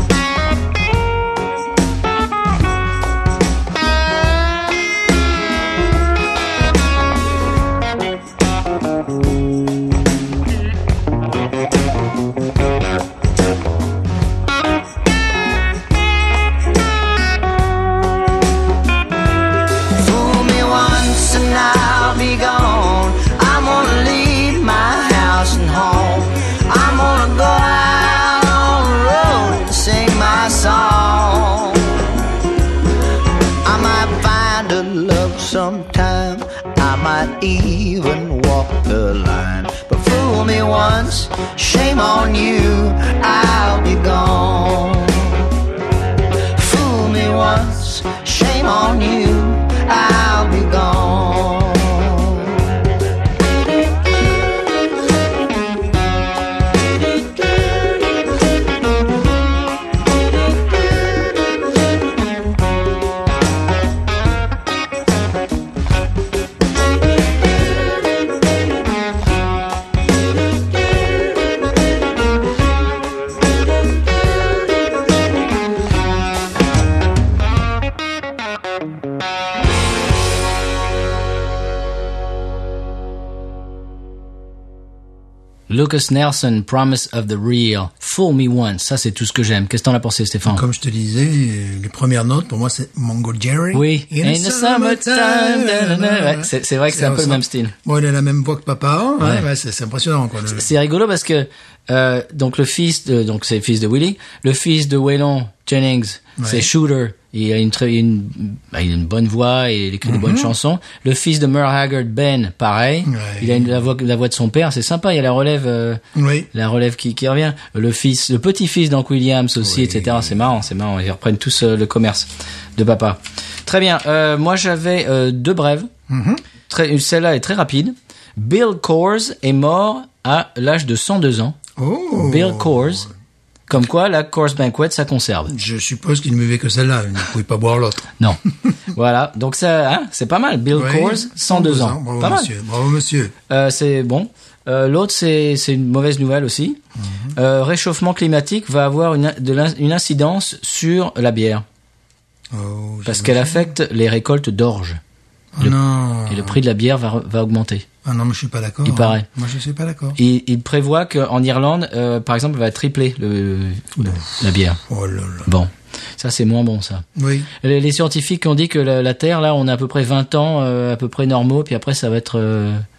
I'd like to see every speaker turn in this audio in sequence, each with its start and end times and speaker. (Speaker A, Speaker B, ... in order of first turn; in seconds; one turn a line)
Speaker A: 20.0-32.3
Speaker A: 33.6-45.5
Speaker A: 46.5-52.7
Speaker B: 85.7-90.6
Speaker C: 90.5-100.7
Speaker B: 93.7-97.8
Speaker B: 100.5-116.0
Speaker C: 106.4-106.7
Speaker C: 110.0-110.5
Speaker C: 113.1-113.7
Speaker C: 116.2-116.5
Speaker B: 116.5-125.9
Speaker C: 119.6-120.3
Speaker C: 126.1-126.4
Speaker B: 126.7-131.6
Speaker C: 131.8-133.0
Speaker B: 132.2-133.1
Speaker B: 133.7-135.5
Speaker C: 135.5-138.2
Speaker B: 138.9-142.5
Speaker C: 140.7-143.3
Speaker B: 143.5-146.8
Speaker C: 147.0-147.3
Speaker B: 147.3-151.7
Speaker C: 152.5-153.7
Speaker B: 153.1-155.0
Speaker C: 155.6-156.6
Speaker B: 156.3-157.9
Speaker C: 158.0-160.2
Speaker B: 158.8-159.3
Speaker B: 160.2-164.8
Speaker C: 164.9-165.5
Speaker B: 165.5-167.1
Speaker C: 167.2-167.5
Speaker B: 167.6-172.8